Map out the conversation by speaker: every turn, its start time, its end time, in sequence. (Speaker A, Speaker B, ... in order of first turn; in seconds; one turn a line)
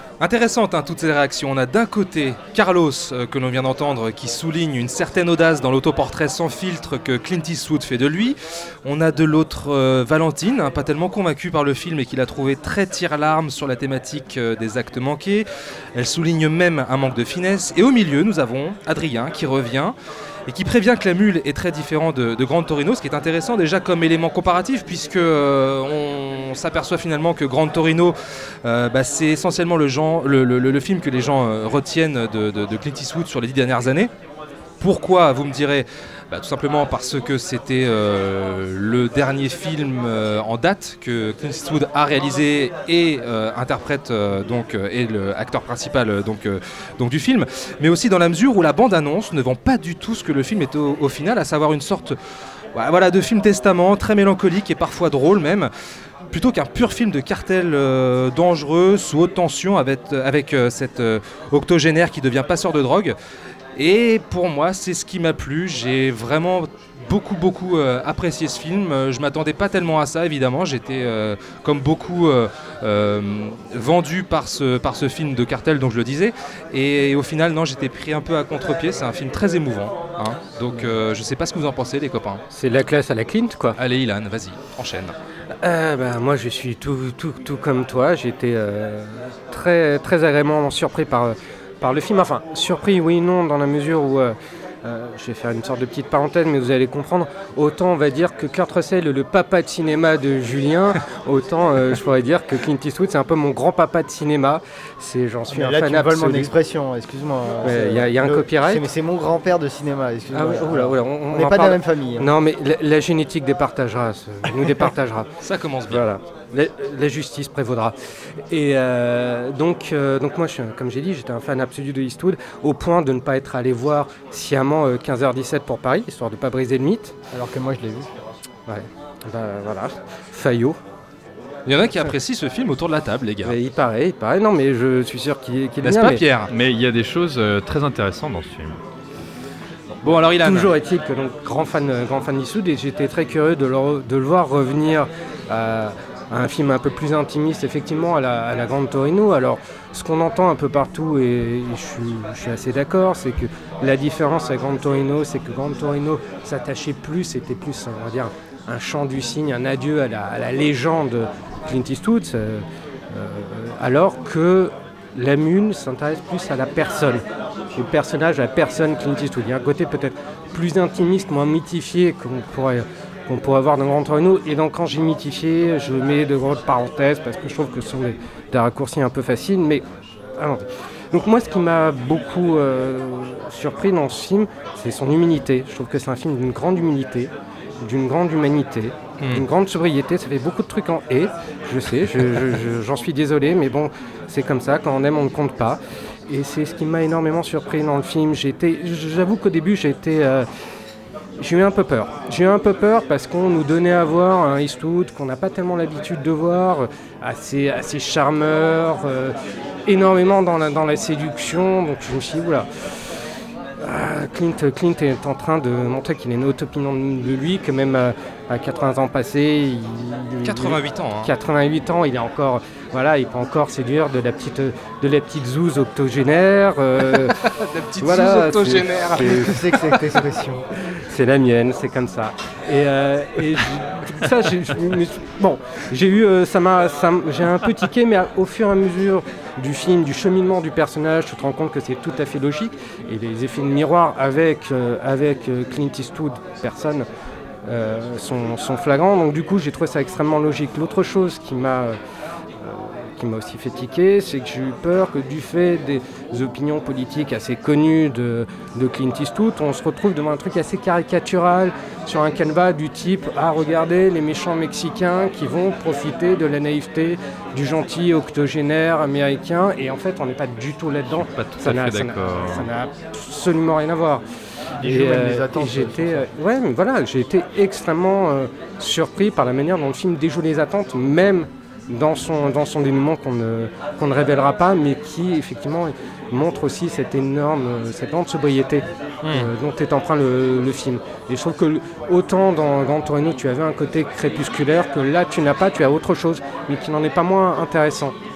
Speaker A: 0.2-19.9
Speaker A: 20.5-34.1
Speaker A: 34.8-52.2
Speaker A: 52.7-55.7
Speaker A: 56.3-63.1
Speaker A: 63.8-82.4
Speaker B: 82.5-83.8
Speaker A: 83.8-85.1
Speaker B: 85.6-106.5
Speaker C: 105.5-112.2
Speaker B: 107.6-108.9
Speaker B: 110.3-115.3
Speaker A: 115.4-116.0
Speaker B: 115.9-117.9
Speaker B: 118.5-127.1
Speaker C: 127.3-128.1
Speaker B: 128.7-130.8
Speaker A: 131.7-133.5
Speaker B: 133.4-136.2
Speaker A: 135.8-136.5
Speaker D: 136.5-138.8
Speaker A: 140.0-140.7
Speaker B: 140.0-167.2
Speaker B: 167.8-179.8
Speaker B: 180.4-187.3
Speaker B: 187.8-200.5
Speaker A: 189.2-189.4
Speaker B: 201.4-209.3
Speaker B: 209.9-213.1
Speaker B: 213.8-227.3
Speaker A: 220.4-221.3
Speaker A: 227.1-229.4
Speaker B: 228.0-229.7
Speaker C: 229.2-230.6
Speaker B: 231.1-247.1
Speaker B: 247.7-252.0
Speaker B: 252.6-274.2
Speaker D: 271.4-272.7
Speaker C: 274.8-276.2
Speaker B: 274.8-298.1
Speaker A: 289.2-289.5